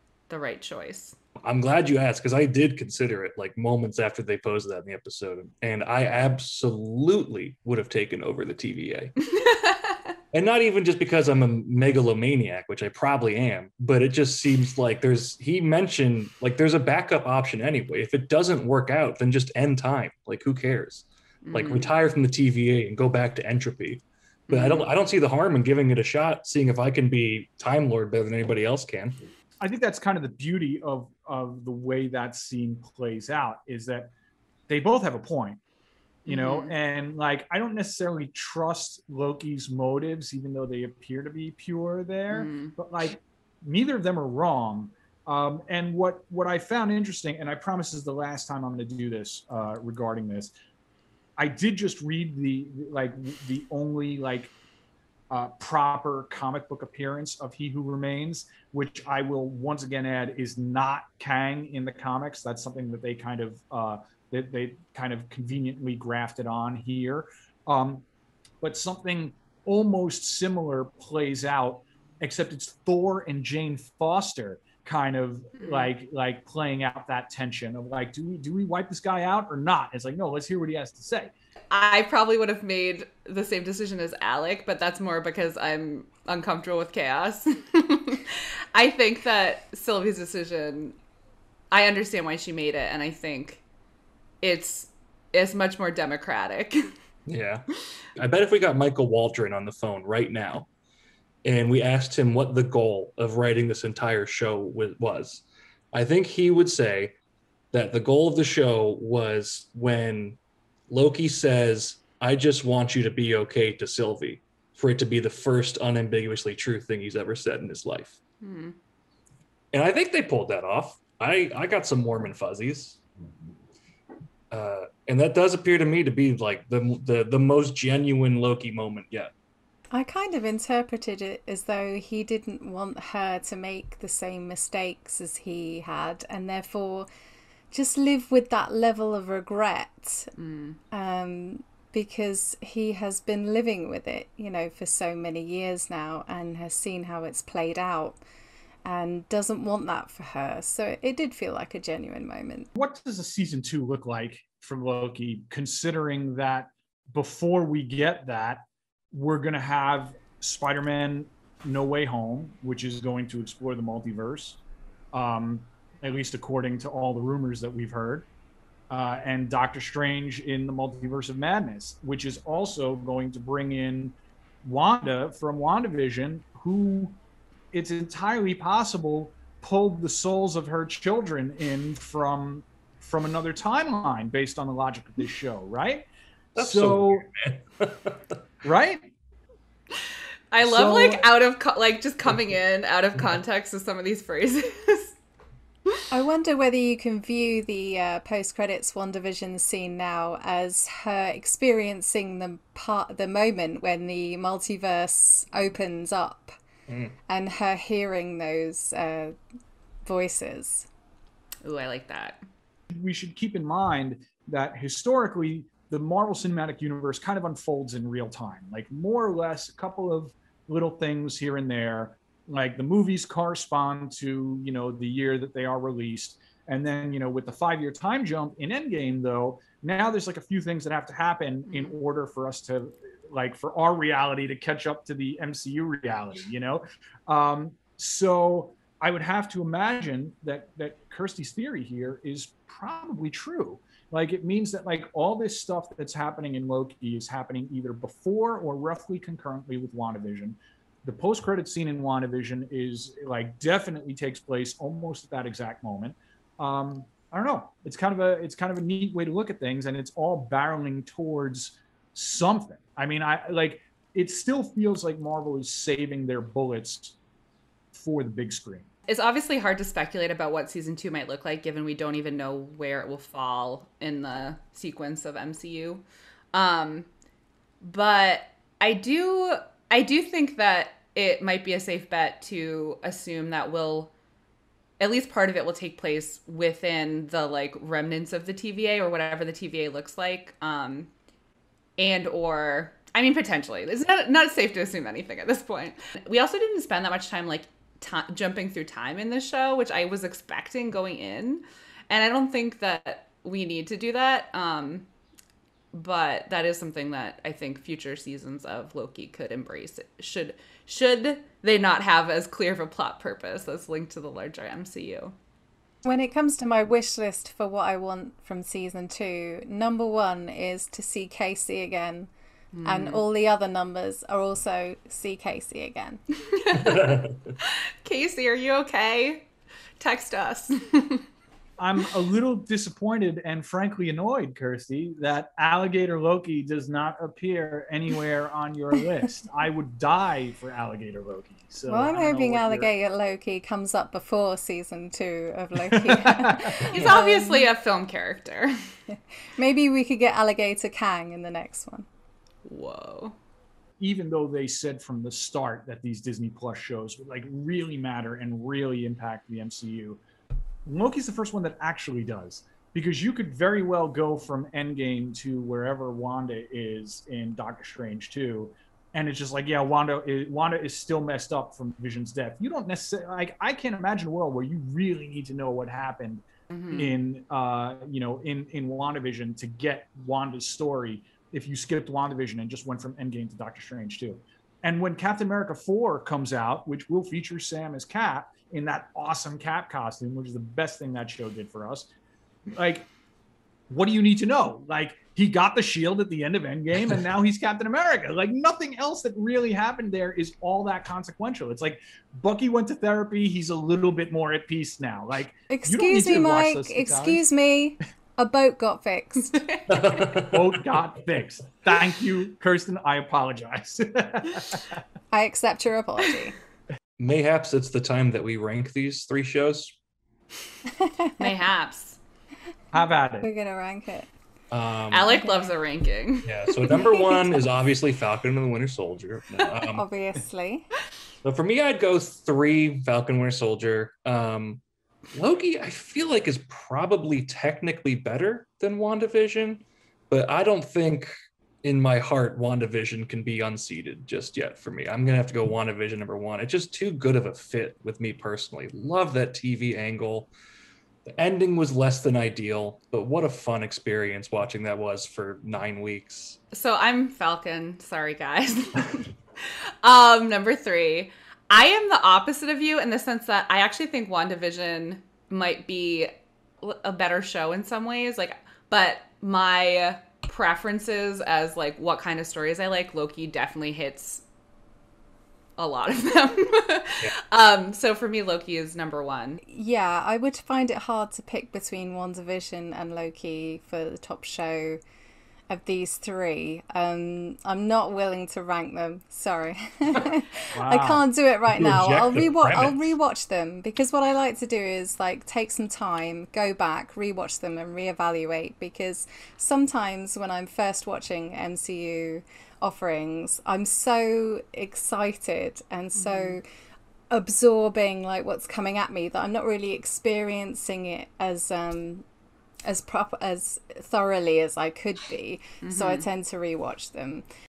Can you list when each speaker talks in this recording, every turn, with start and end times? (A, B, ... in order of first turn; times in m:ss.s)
0:00.3-0:01.2 A
0:01.4-0:09.1 B
0:09.3-0:10.0 A
0:10.3-0:29.2 B
0:21.4-0:21.9 A
0:24.5-0:24.9 A
0:29.6-0:34.1 C
0:34.7-0:35.6 C
0:36.2-0:50.5 C
0:36.3-0:36.7 A
0:42.3-0:42.7 A
0:51.4-0:54.5 C
0:55.3-1:08.0 C
1:08.6-1:21.3 C
1:15.6-1:15.9 A
1:21.7-1:31.0 A
1:31.7-1:33.6 A
1:34.4-1:36.9 A
1:37.3-1:40.7 B
1:41.4-1:47.1 B
1:47.7-1:58.2 B
1:58.4-1:58.8 A
1:59.7-2:03.0 B
2:04.5-2:09.3 B
2:09.9-2:17.1 D
2:17.7-2:20.3 D
2:20.4-2:20.8 A
2:20.9-2:28.2 D
2:28.8-2:32.7 D
2:32.7-2:44.6 C
2:45.1-2:48.3 C
2:48.9-2:57.2 C
2:57.7-3:07.3 C
3:06.6-3:08.2 B
3:08.6-3:09.1 C
3:10.5-3:15.2 A
3:10.6-3:11.2 C
3:16.1-3:26.5 D
3:26.9-3:27.1 B
3:27.3-3:29.4 D
3:30.0-3:30.9 D
3:31.6-3:32.4 A
3:32.9-4:27.2 C
4:27.9-4:28.9 C
4:29.1-4:37.1 A
4:37.8-4:44.1 A
4:45.0-4:51.1 A
4:52.0-5:05.1 A
5:05.9-5:15.4 A
5:16.0-5:22.3 D
5:22.7-5:23.2 A
5:22.8-5:26.2 D
5:26.5-5:29.5 A
5:26.8-5:27.4 B
5:30.0-5:31.2 A
5:31.8-5:42.9 C
5:41.9-5:47.7 D
5:45.9-5:46.9 C
5:46.9-5:48.7 A
5:49.6-5:52.1 D
5:52.6-5:53.4 A
5:54.0-6:00.2 C
6:00.8-6:32.1 C
6:16.7-6:17.1 A
6:32.7-6:33.1 C
6:33.9-6:47.4 C
6:45.7-6:49.7 D
6:49.9-6:50.8 B
6:50.3-6:55.0 C
6:55.3-6:56.6 D
6:57.2-6:59.9 B
7:01.0-7:01.4 D
7:01.4-7:02.2 A
7:02.9-7:03.5 C
7:03.4-7:04.3 D
7:04.7-7:05.4 B
7:05.1-7:07.3 A
7:06.4-7:10.0 B
7:09.9-7:10.9 D
7:11.4-7:14.8 B
7:15.3-7:21.3 B
7:21.8-7:30.5 B
7:31.2-7:36.6 B
7:36.7-7:46.3 A
7:46.8-7:54.4 A
7:55.8-7:59.6 A
7:59.7-8:05.0 D
8:05.7-8:26.6 D
8:10.7-8:11.2 C
8:11.7-8:13.1 B
8:26.2-8:26.6 A
8:27.3-8:32.2 D
8:32.8-8:37.4 D
8:35.8-8:36.2 A